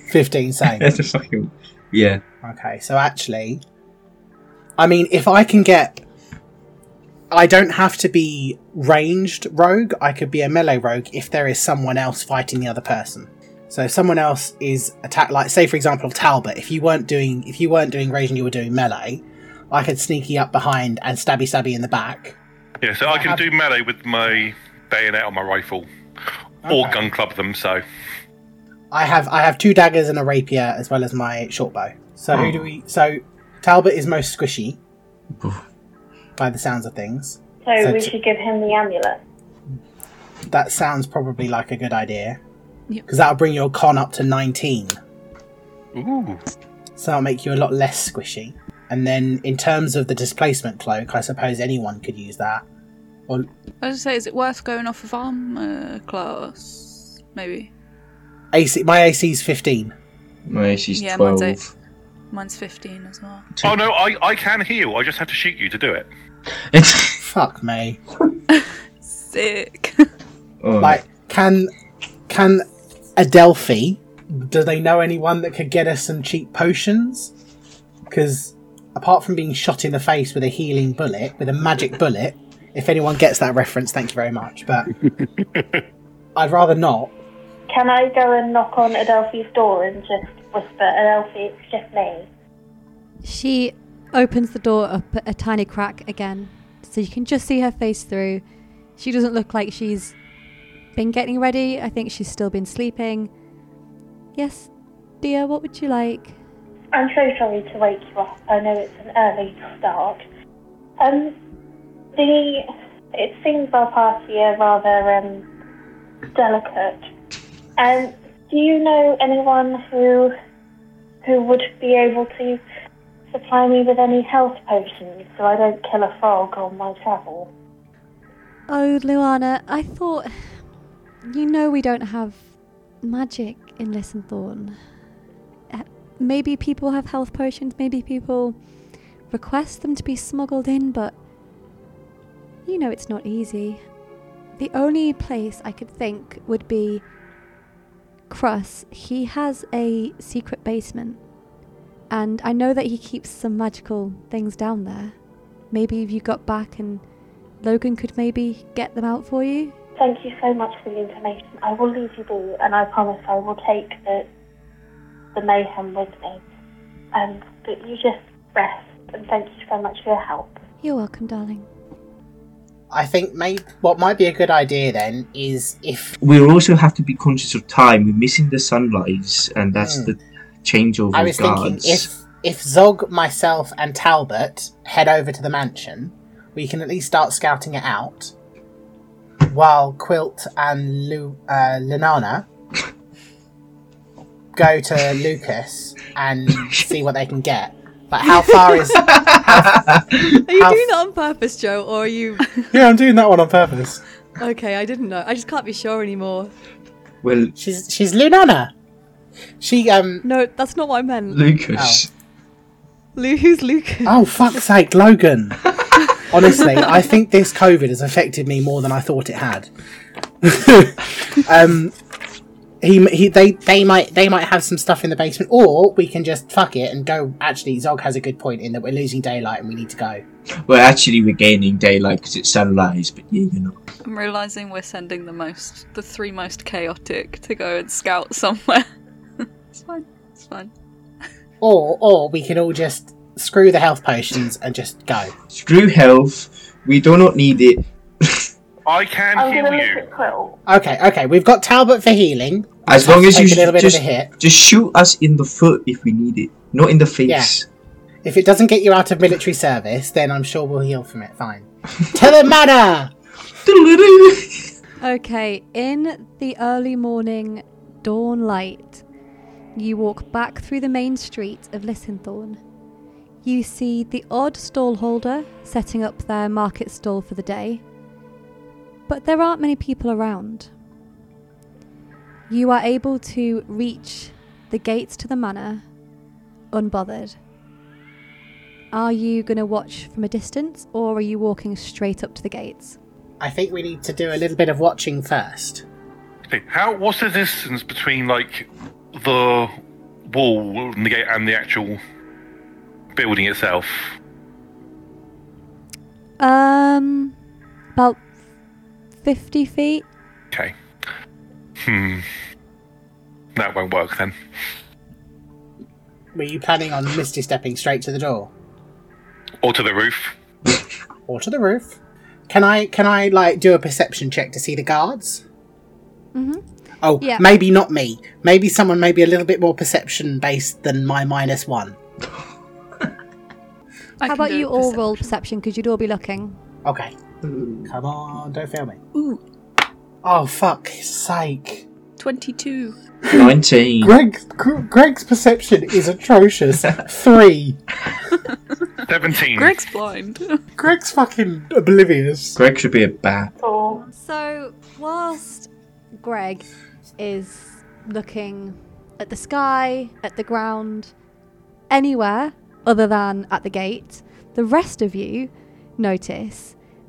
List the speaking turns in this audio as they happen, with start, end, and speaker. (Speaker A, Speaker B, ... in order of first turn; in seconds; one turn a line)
Speaker A: 0.1-0.9
Speaker B: 0.7-2.2
Speaker A: 2.4-3.6
Speaker A: 4.8-6.0
Speaker A: 7.3-22.4
Speaker C: 22.8-25.9
Speaker A: 23.1-23.4
Speaker C: 26.6-27.8
Speaker A: 26.7-27.0
Speaker A: 28.9-34.8
Speaker B: 32.3-32.6
Speaker A: 36.4-38.1
Speaker D: 37.6-39.2
Speaker A: 40.5-42.4
Speaker A: 43.1-45.0
Speaker C: 46.0-46.4
Speaker A: 47.0-52.6
Speaker E: 53.8-57.7
Speaker A: 58.5-59.9
Speaker B: 60.5-61.7
Speaker E: 61.0-61.6
Speaker E: 62.3-63.5
Speaker B: 63.6-63.8
Speaker C: 63.6-66.1
Speaker B: 66.7-67.2
Speaker A: 67.2-68.0
Speaker E: 68.5-70.1
Speaker B: 70.6-71.0
Speaker A: 70.8-71.7
Speaker A: 72.3-72.6
Speaker A: 73.2-77.3
Speaker A: 78.1-84.9
Speaker A: 86.4-87.1
Speaker D: 87.7-92.3
Speaker F: 93.2-98.4
Speaker F: 99.0-100.2
Speaker F: 101.0-103.3
Speaker F: 104.4-104.7
Speaker F: 105.2-106.4
Speaker D: 106.9-110.2
Speaker D: 111.0-111.3
Speaker D: 112.1-115.5
Speaker D: 116.3-117.0
Speaker D: 117.8-120.3
Speaker D: 121.2-122.6
Speaker D: 123.3-127.5
Speaker F: 128.7-130.3
Speaker F: 131.2-132.4
Speaker F: 133.0-134.8
Speaker F: 135.7-138.6
Speaker F: 139.3-141.1
Speaker F: 142.7-143.8
Speaker F: 144.6-147.0
Speaker F: 148.3-151.2
Speaker F: 152.1-155.2
Speaker F: 155.7-157.0
Speaker F: 157.6-159.8
Speaker D: 160.0-164.3
Speaker D: 165.3-166.4
Speaker D: 167.1-170.6
Speaker F: 170.8-171.7
Speaker A: 172.9-176.2
Speaker B: 176.2-182.1
Speaker A: 179.8-180.1
Speaker A: 181.1-188.3
Speaker A: 189.4-192.5
Speaker A: 194.5-200.9
Speaker B: 198.9-200.2
Speaker F: 200.4-202.5
Speaker A: 202.7-204.0
Speaker F: 204.4-206.5
Speaker B: 207.2-207.5
Speaker A: 207.6-208.7
Speaker A: 209.6-210.2
Speaker F: 210.2-211.4
Speaker B: 211.3-212.1
Speaker A: 211.8-212.0
Speaker F: 213.2-214.2
Speaker A: 214.1-219.7
Speaker A: 220.4-221.9
Speaker A: 222.8-230.2
Speaker B: 230.7-233.8
Speaker E: 234.0-238.9
Speaker E: 239.4-240.7
Speaker A: 241.6-245.3
Speaker B: 245.5-248.5
Speaker C: 248.9-250.1
Speaker D: 249.3-250.6
Speaker A: 250.7-254.3
Speaker B: 252.9-257.6
Speaker A: 257.3-257.5
Speaker A: 258.2-263.1
Speaker B: 263.6-264.7
Speaker F: 265.0-269.0
Speaker F: 269.8-272.6
Speaker F: 273.4-277.8
Speaker F: 279.1-280.7
Speaker F: 282.5-285.8
Speaker F: 286.7-287.4
Speaker F: 288.9-293.0
Speaker A: 293.4-295.8
Speaker C: 296.5-299.7
Speaker C: 300.3-302.0
Speaker C: 303.1-304.1
Speaker F: 306.4-307.4
Speaker F: 307.9-308.2
Speaker F: 309.2-310.0
Speaker C: 311.8-312.2
Speaker C: 313.6-314.3
Speaker A: 316.4-318.5
Speaker C: 319.6-320.3
Speaker A: 321.3-322.0
Speaker A: 322.5-325.4
Speaker F: 326.3-326.6
Speaker A: 327.0-332.0
Speaker F: 327.2-327.5
Speaker E: 334.2-335.3
Speaker F: 334.2-336.6
Speaker A: 336.9-337.1
Speaker A: 337.8-339.0
Speaker E: 339.1-339.4
Speaker A: 340.2-341.9
Speaker E: 342.2-343.0
Speaker A: 343.2-347.8
Speaker B: 343.3-344.1
Speaker C: 349.1-349.8
Speaker E: 349.5-350.6
Speaker A: 350.8-352.6
Speaker B: 352.6-353.5
Speaker D: 353.6-354.0
Speaker F: 354.0-356.6
Speaker F: 357.2-361.1
Speaker F: 361.9-366.8